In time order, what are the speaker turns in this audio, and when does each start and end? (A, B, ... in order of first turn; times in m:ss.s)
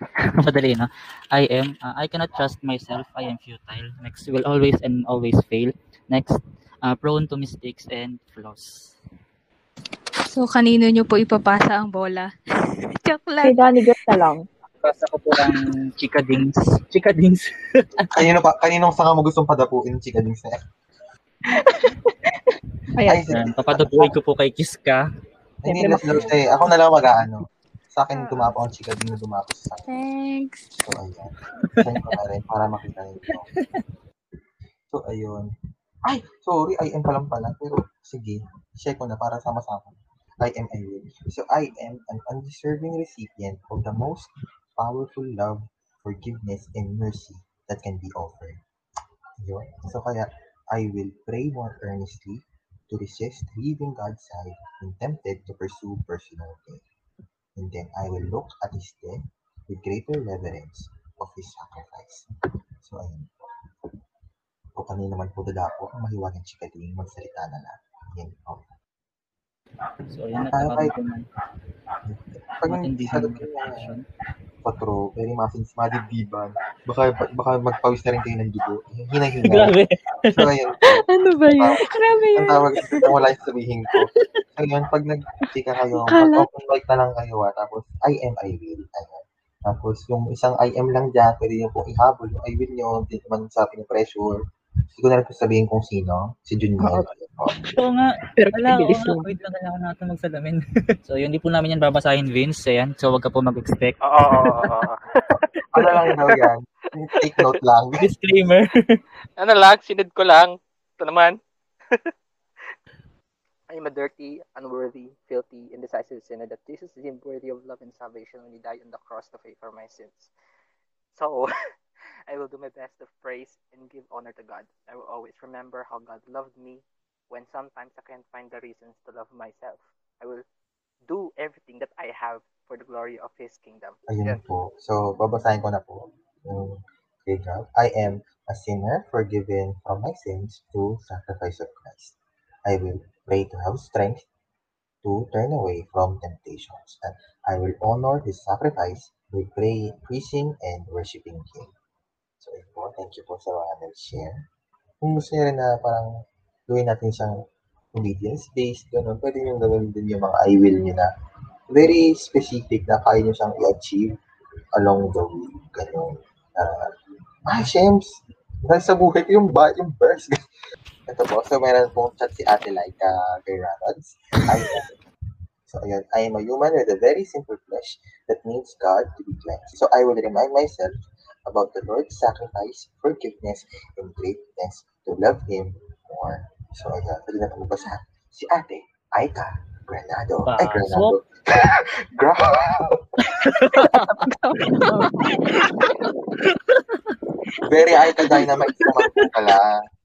0:00.4-0:09.0 A
0:10.3-0:12.3 B
0:13.0-0:14.0 B
0:13.4-0:14.5 C
0:14.8-0:18.1 A
0:18.1-0:20.5 D
0:21.5-0:22.1 C
0:23.0-0:25.0 A
0:23.0-0:24.1 D
0:25.6-0:30.0 D
0:25.7-0:26.4 C
0:28.1-0:28.5 B
0:29.9-0:30.7 B
0:30.8-0:33.5 D
0:34.9-0:35.5 D
0:36.0-0:48.6 D
0:49.4-0:56.8 D
0:57.6-1:02.2 D
1:02.8-1:03.4 D
1:04.7-1:08.7 D
1:10.1-1:11.2 A
1:10.3-1:10.9 D
1:12.0-1:13.9 D
1:12.7-1:14.0 A
1:14.6-1:19.8 D
1:19.5-1:19.8 A
1:20.3-1:34.4 D
1:21.1-1:22.6 C
1:26.0-1:26.5 C
1:34.9-1:37.6 D
1:37.8-1:44.0 A
1:38.4-1:39.3 C
1:44.0-1:45.5 E
1:45.7-1:48.1 D
1:48.0-1:49.0 A
1:49.4-1:51.4 E
1:53.7-2:00.3 E
2:01.1-2:01.5 E
2:02.3-2:10.4 E
2:11.1-2:14.4 E
2:14.1-2:24.2 D
2:25.0-2:31.7 D
2:32.4-2:34.4 D
2:35.0-2:36.1 D
2:36.7-2:37.4 D
2:37.9-2:41.1 D
2:41.7-2:44.2 D
2:44.7-2:46.9 D
2:47.5-2:50.5 D
2:51.1-2:54.9 D
2:55.6-3:13.0 D
3:10.5-3:11.2 A
3:14.2-3:15.7 C
3:17.6-3:19.8 D